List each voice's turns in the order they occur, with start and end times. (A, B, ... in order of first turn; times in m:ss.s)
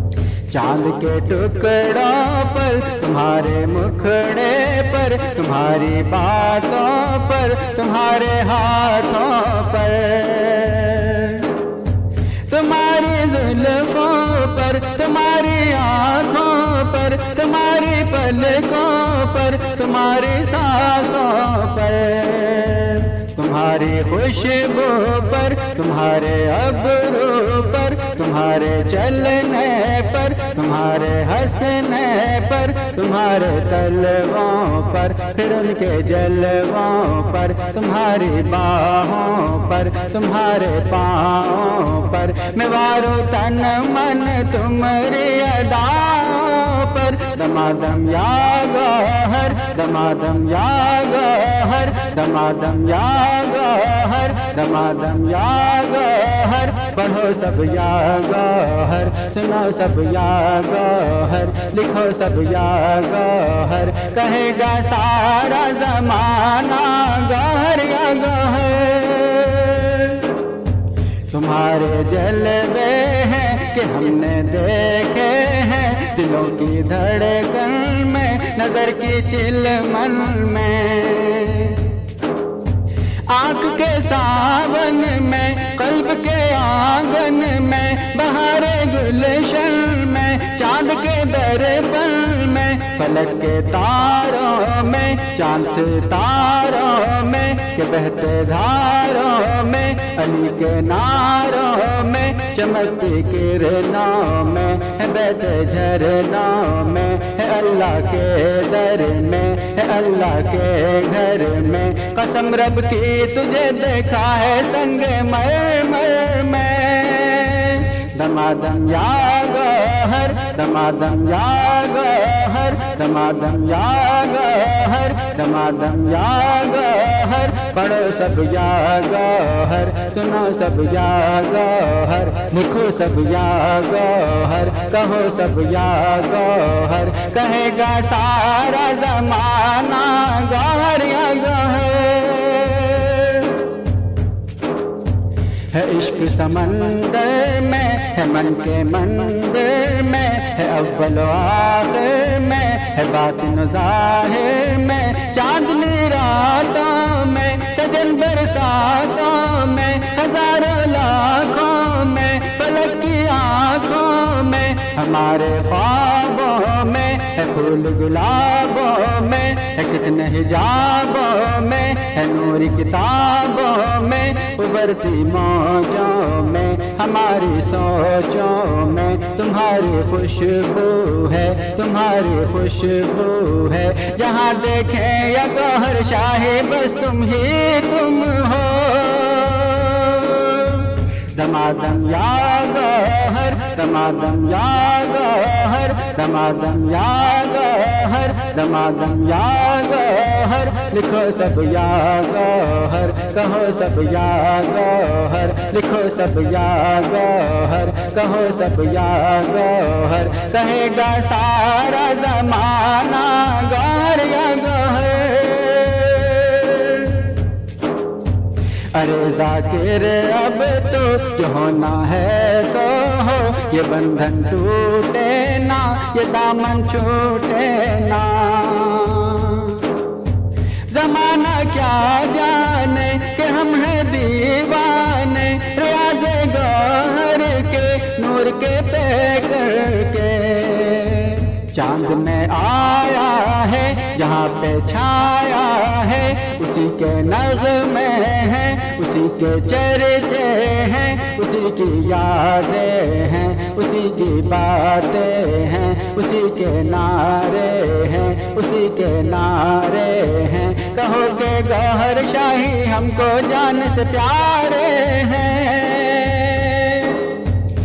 0:00.5-0:11.6 A
0:12.5-1:10.6 A
1:11.3-1:22.0 A
1:23.3-2:23.8 A
2:25.7-3:37.4 A
3:38.9-3:50.0 A
3:50.9-4:27.5 A